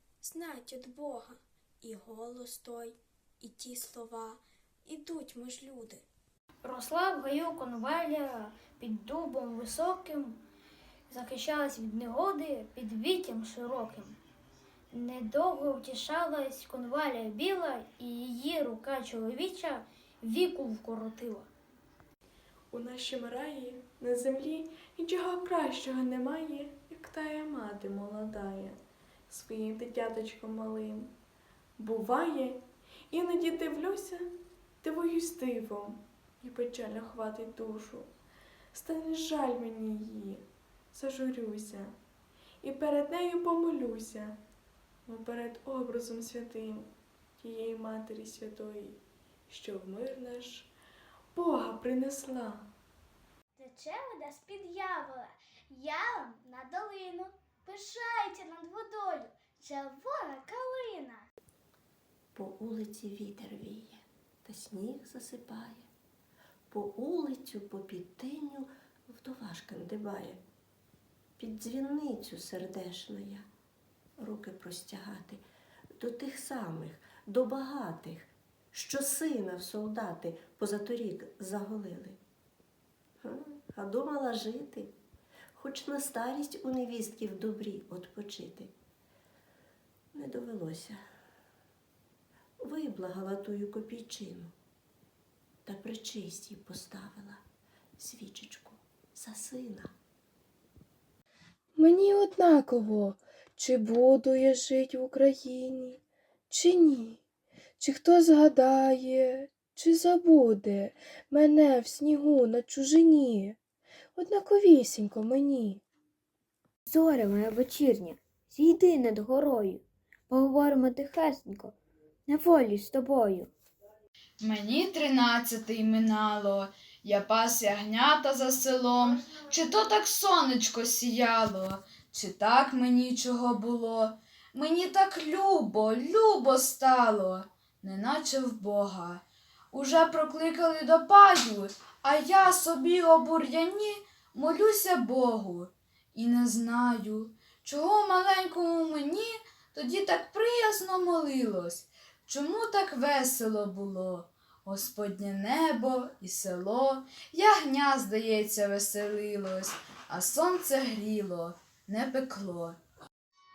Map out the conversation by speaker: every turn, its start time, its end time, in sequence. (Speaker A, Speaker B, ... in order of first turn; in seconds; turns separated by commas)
Speaker A: 0.2-6.0, Speaker B: 6.6-10.4, Speaker B: 11.1-14.2, Speaker B: 14.9-21.5, Speaker C: 22.7-28.8, Speaker C: 29.3-31.1, Speaker C: 31.8-34.3, Speaker C: 34.8-38.1, Speaker C: 38.7-42.0, Speaker C: 42.6-44.4, Speaker C: 45.1-50.7, Speaker C: 51.3-52.7, Speaker D: 53.6-61.2, Speaker E: 62.3-65.9, Speaker E: 66.7-70.4, Speaker E: 71.4-73.5, Speaker E: 74.2-75.4, Speaker E: 76.0-82.2, Speaker E: 83.2-84.9, Speaker E: 85.5-88.7, Speaker E: 90.1-91.0, Speaker E: 92.6-94.5, Speaker E: 95.7-97.4, Speaker E: 98.0-99.9, Speaker F: 101.8-106.0, Speaker F: 106.5-107.2, Speaker F: 107.8-113.6, Speaker F: 114.2-115.8, Speaker G: 116.9-121.7, Speaker G: 122.3-123.5, Speaker H: 124.4-162.8